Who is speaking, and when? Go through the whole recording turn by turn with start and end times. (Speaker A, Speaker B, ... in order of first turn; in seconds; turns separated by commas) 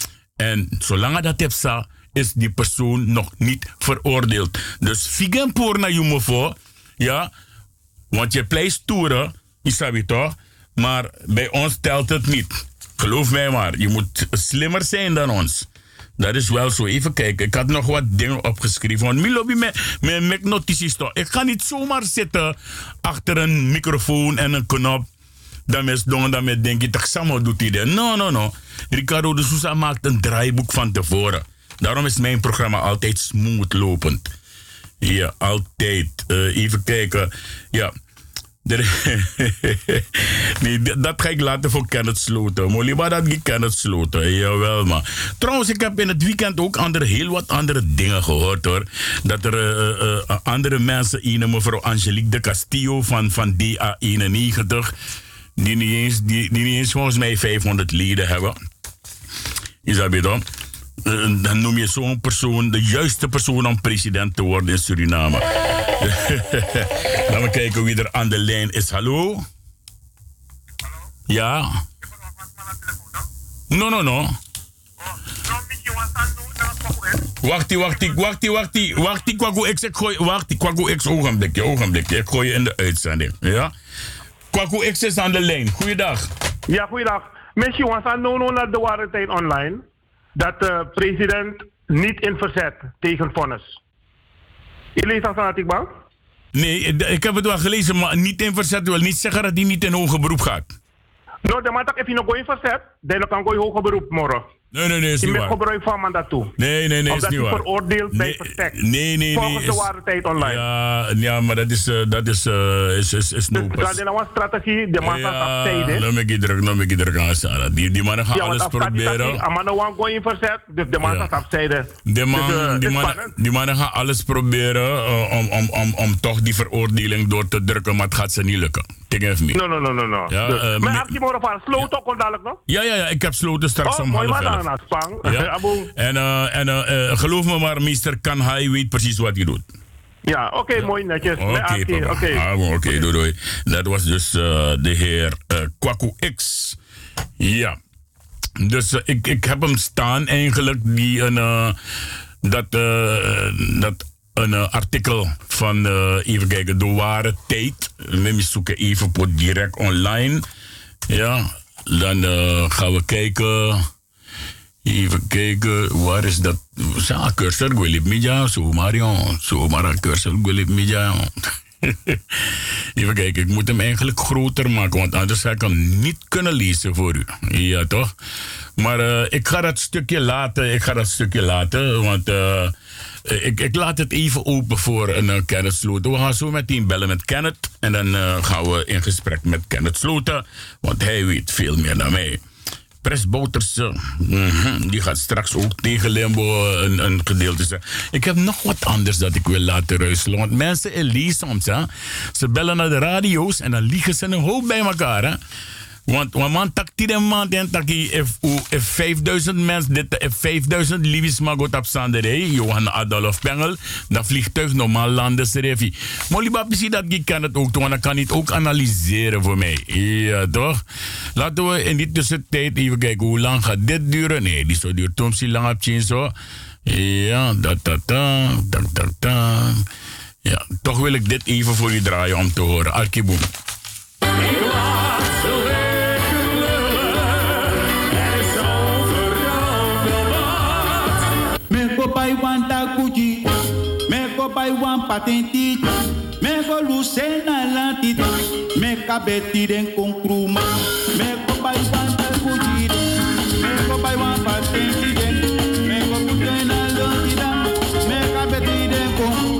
Speaker A: 0.4-7.3, Speaker A: 8.1-15.7, Speaker A: 16.2-25.1, Speaker A: 25.7-34.3, Speaker A: 35.0-37.9, Speaker A: 38.6-54.9, Speaker A: 55.6-58.5, Speaker A: 59.8-60.4, Speaker A: 61.0-65.5, Speaker A: 66.0-69.4, Speaker A: 71.3-71.8, Speaker A: 73.7-74.3, Speaker B: 75.7-77.1, Speaker A: 77.4-83.7, Speaker A: 84.5-86.3, Speaker B: 86.7-89.8, Speaker B: 90.3-93.8, Speaker B: 95.0-95.8, Speaker A: 96.5-100.7, Speaker B: 101.4-104.5, Speaker A: 104.7-105.6, Speaker B: 105.2-106.5, Speaker A: 106.6-109.9, Speaker B: 107.1-108.8, Speaker B: 109.3-110.6, Speaker A: 110.4-114.0, Speaker B: 113.5-116.0, Speaker A: 115.0-119.4, Speaker B: 118.3-123.3, Speaker A: 121.0-121.3, Speaker A: 122.0-129.6, Speaker B: 129.5-132.6, Speaker A: 130.3-131.1, Speaker A: 132.7-134.6, Speaker B: 133.8-135.9, Speaker A: 135.2-139.7, Speaker B: 140.3-143.1, Speaker A: 141.3-146.8, Speaker A: 147.4-147.8, Speaker A: 148.6-151.8, Speaker A: 152.4-160.4, Speaker A: 161.1-163.9, Speaker A: 164.8-178.1, Speaker A: 178.8-182.7, Speaker A: 183.2-192.4, Speaker A: 193.0-205.4, Speaker A: 206.1-220.8, Speaker A: 221.3-226.3, Speaker A: 226.8-229.8, Speaker A: 230.4-233.5, Speaker C: 241.7-243.5, Speaker C: 244.1-253.0, Speaker C: 253.6-259.4